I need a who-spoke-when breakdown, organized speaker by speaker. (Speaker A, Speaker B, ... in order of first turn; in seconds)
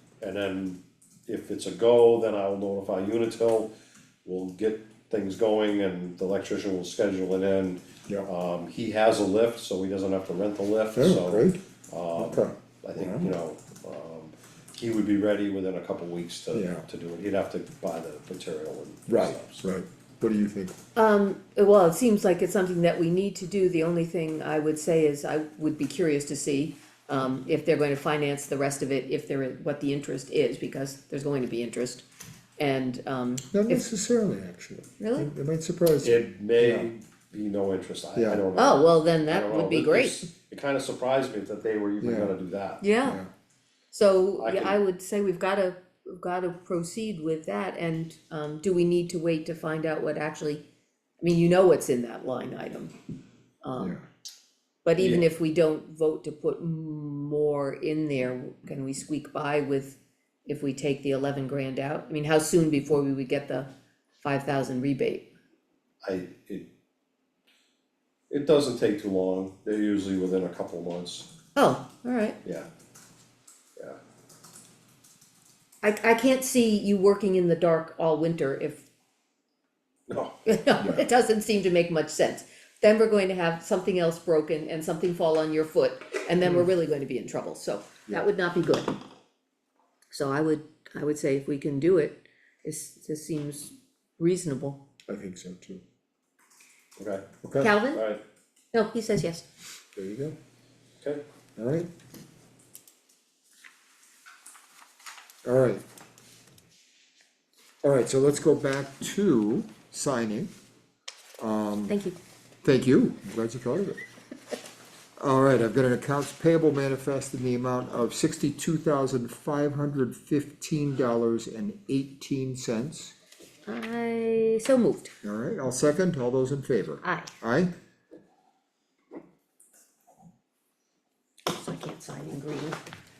Speaker A: 0.2-3.7, 4.2-19.6, 36.0-42.8, 44.4-44.8, 55.0-55.2, 66.0-66.7, 68.3-71.3, 80.1-80.5, 97.0-97.2, 97.9-98.2
Speaker B: 10.9-11.6, 12.2-13.3, 16.5-16.9, 19.1-20.8, 33.5-36.9, 38.1-38.5, 42.0-42.3, 43.0-43.3, 53.8-54.0, 95.1-95.8, 97.4-97.8, 99.9-100.3, 101.6-101.9, 105.4-105.8, 107.8-110.5, 111.4-112.0, 112.6-114.0, 115.2-123.1, 125.2-127.7
Speaker C: 20.9-32.0, 32.6-33.9, 35.0-35.3, 38.5-40.3, 42.8-43.2, 43.9-50.6, 51.2-52.9, 53.6-54.0, 54.8-63.7, 64.2-65.3, 71.5-72.4, 75.8-78.8, 80.5-88.9, 90.1-94.8, 97.6-98.0, 98.7-99.5, 111.9-112.2, 123.7-125.1, 127.0-127.3, 131.5-132.8